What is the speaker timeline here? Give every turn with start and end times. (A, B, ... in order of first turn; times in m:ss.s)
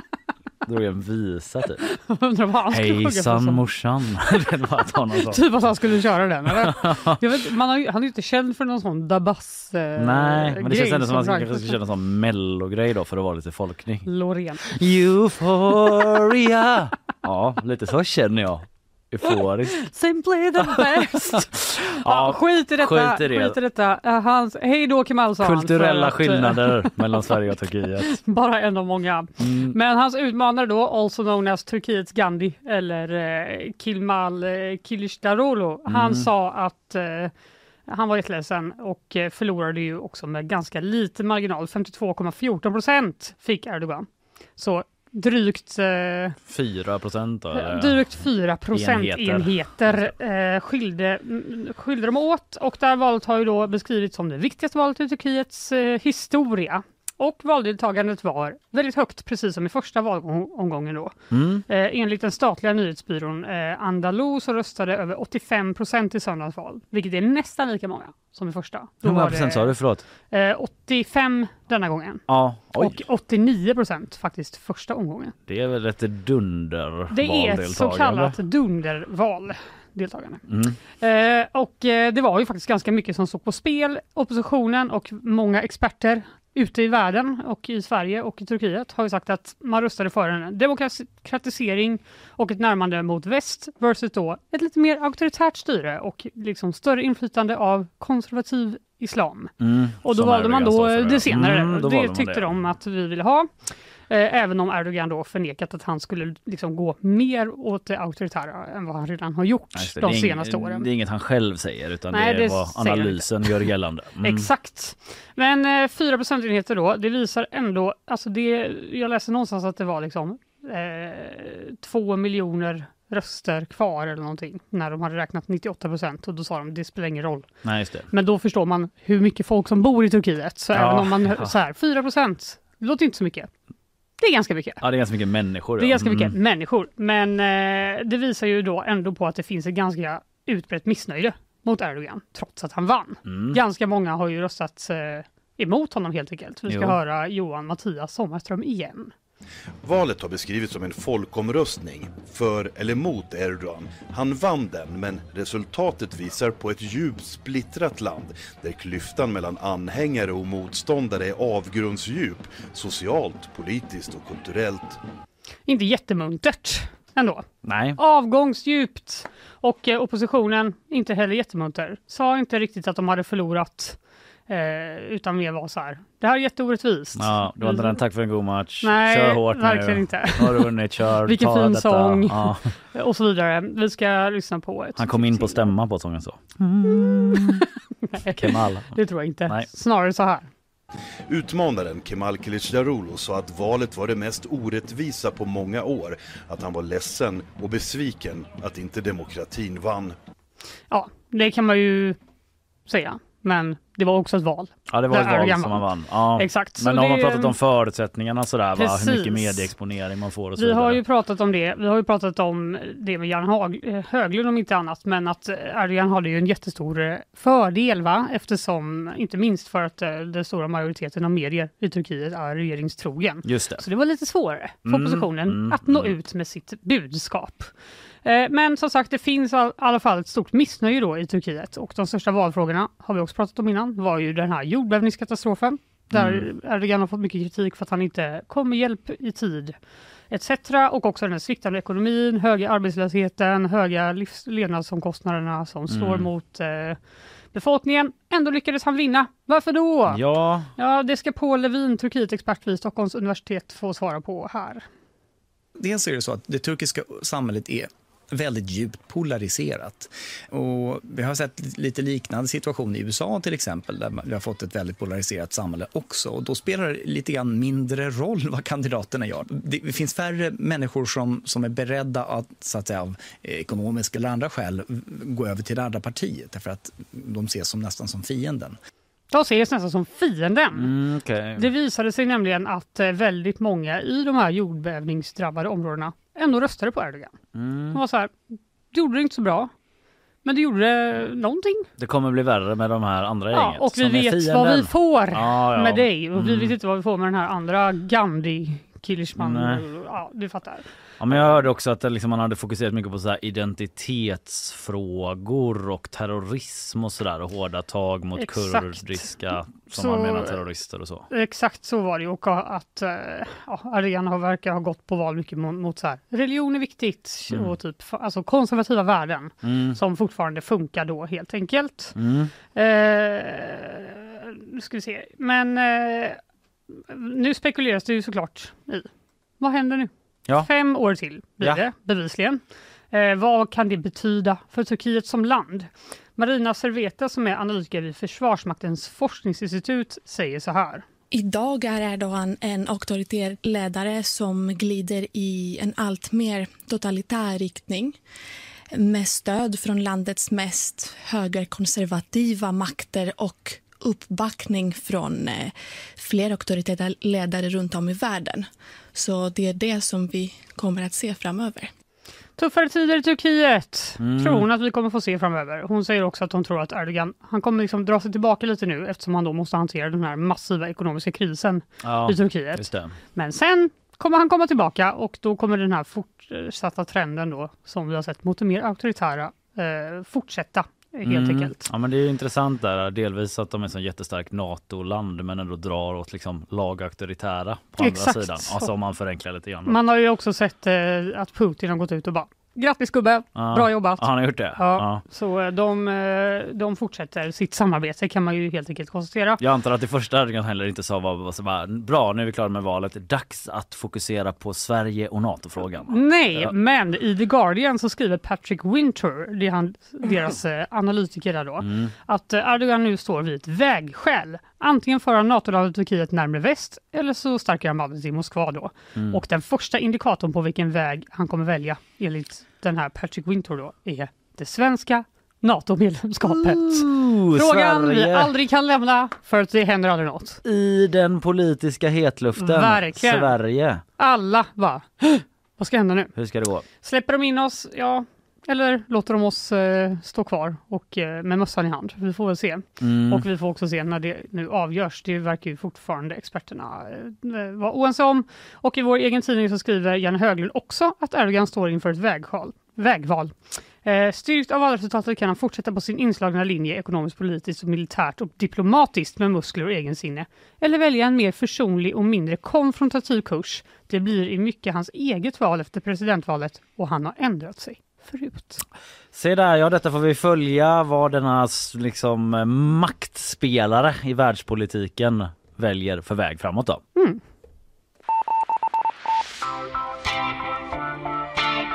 0:00.7-0:01.8 A
0:01.8-0:03.6 B
0:02.7-0:05.4 A
0:05.2-0:11.8 B
0:06.5-0:07.2 A
0:10.0-0:14.1 A
0:14.0-0:14.7 B
0:14.7-0:19.9 A
0:19.8-0:27.4 B
0:20.6-0:23.6 A
0:25.4-0:28.2 A
0:28.0-0:37.3 B
0:29.4-0:29.8 A
0:35.9-0:36.3 A
0:37.9-0:46.4 B
0:46.5-0:48.2 A
0:47.5-1:01.2 B
0:48.7-0:50.1 A
1:01.3-1:01.6 A
1:01.7-1:15.3 B
1:09.0-1:10.0 A
1:12.3-1:13.0 A
1:15.5-1:18.4 A
1:17.1-1:20.4 B
1:20.5-1:20.8 A
1:21.0-1:39.5 B
1:39.6-1:42.5 A
1:40.0-1:43.6 B
1:44.1-1:50.9 B
1:49.8-1:54.5 A
1:52.1-1:53.6 B
1:54.2-2:07.5 B
2:07.6-2:08.1 A
2:08.1-2:13.5 B
2:10.7-2:11.5 A
2:14.2-2:14.8 B
2:14.8-2:16.3 A
2:15.8-2:29.1 B
2:23.3-2:23.6 A
2:26.7-2:27.0 A
2:29.8-2:45.0 C
2:45.7-2:47.4 B
2:47.6-2:48.0 A
2:48.0-2:58.0 B
2:57.2-3:02.7 A
2:58.8-3:05.7 B
3:05.0-3:07.7 A
3:07.3-3:10.5 B
3:08.4-3:09.7 A
3:11.3-3:20.2 C
3:20.9-3:22.2 B
3:22.9-3:27.6 B
3:24.9-3:31.0 A
3:28.8-3:29.7 B
3:30.6-3:47.7 B
3:43.4-3:43.8 A
3:44.8-3:46.1 A
3:48.2-3:59.8 B
3:56.1-3:56.5 A
4:00.3-4:07.0 B
4:05.9-4:06.3 A
4:07.5-4:10.2 B
4:10.1-4:10.7 A
4:10.8-4:14.9 B
4:15.8-4:38.8 D
4:39.3-4:40.9 B
4:40.8-4:41.7 A
4:41.6-4:47.3 B
4:47.5-4:48.0 A
4:47.9-4:48.4 B
4:48.9-4:49.7 B
4:50.4-4:51.9 B
4:52.0-4:56.8 A
4:53.5-5:00.8 B
4:59.4-4:59.8 A
5:01.2-5:11.3 A
5:08.4-5:09.3 B
5:10.0-5:10.6 B
5:11.3-5:22.2 B
5:19.6-5:20.0 A
5:22.2-5:22.5 A
5:22.7-5:26.4 B
5:26.9-5:29.1 B
5:29.6-5:41.0 B
5:41.3-5:48.2 E
5:48.9-6:01.9 E
6:02.6-6:21.8 B
6:04.2-6:04.7 A
6:12.0-6:13.2 A
6:21.2-6:30.0 A
6:28.0-6:28.9 B
6:29.9-6:34.2 B
6:33.6-6:35.2 A
6:34.8-6:39.6 B
6:39.6-6:46.7 A
6:46.1-7:10.6 B
6:51.8-6:52.1 A
6:59.2-6:59.4 A
7:06.5-7:08.5 A
7:10.6-7:14.0 A
7:12.6-7:13.6 B
7:14.2-7:16.3 B
7:16.4-7:16.9 A
7:17.0-7:48.8 B
7:23.0-7:23.4 A
7:49.3-7:57.0 A
7:57.2-7:57.4 B